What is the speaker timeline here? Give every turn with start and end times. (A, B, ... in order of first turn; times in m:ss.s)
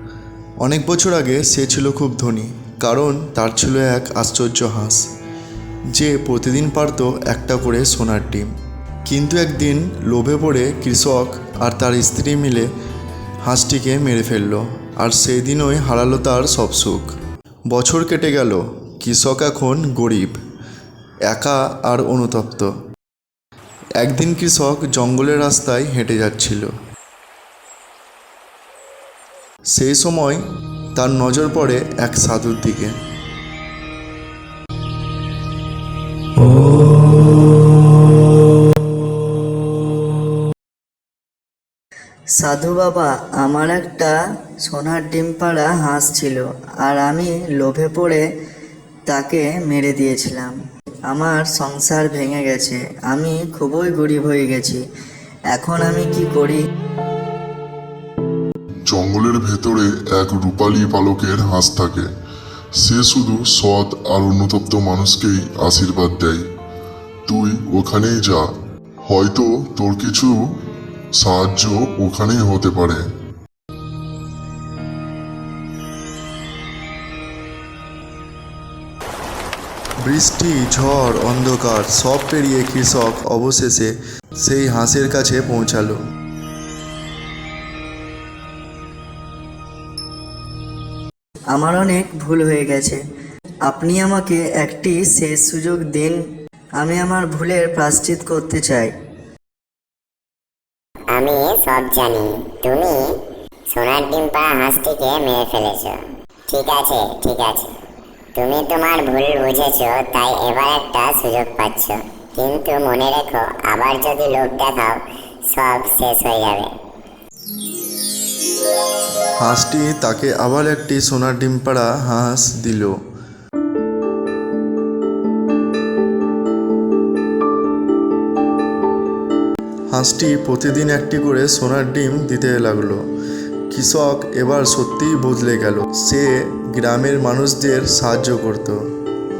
0:00.6-0:05.0 A
0:05.9-0:08.5 A
0:09.0-0:12.7 A
0:13.4-0:17.1 A
0:17.7-0:20.4 A
0:21.3-0:22.7 A
0:24.0-0:26.7 A
0:29.7-0:30.4 A
0:30.9-0:33.0 A
0:42.3-0:48.2 B
0:49.1-0:50.5 B
0:51.1-0:54.8 B
0:55.5-0:56.6 B
0:58.9-1:02.1 C
1:02.8-1:06.4 C
1:07.3-1:08.5 C
1:09.1-1:10.4 C
1:11.2-1:13.0 C
1:20.0-1:26.0 A
1:31.5-1:33.0 B
1:33.6-1:36.2 B
1:36.8-1:38.9 B
1:41.1-1:43.2 D
1:43.7-1:47.7 D
1:48.3-1:56.7 D
1:59.4-2:03.0 A
2:09.9-2:13.0 A
2:13.7-2:18.8 A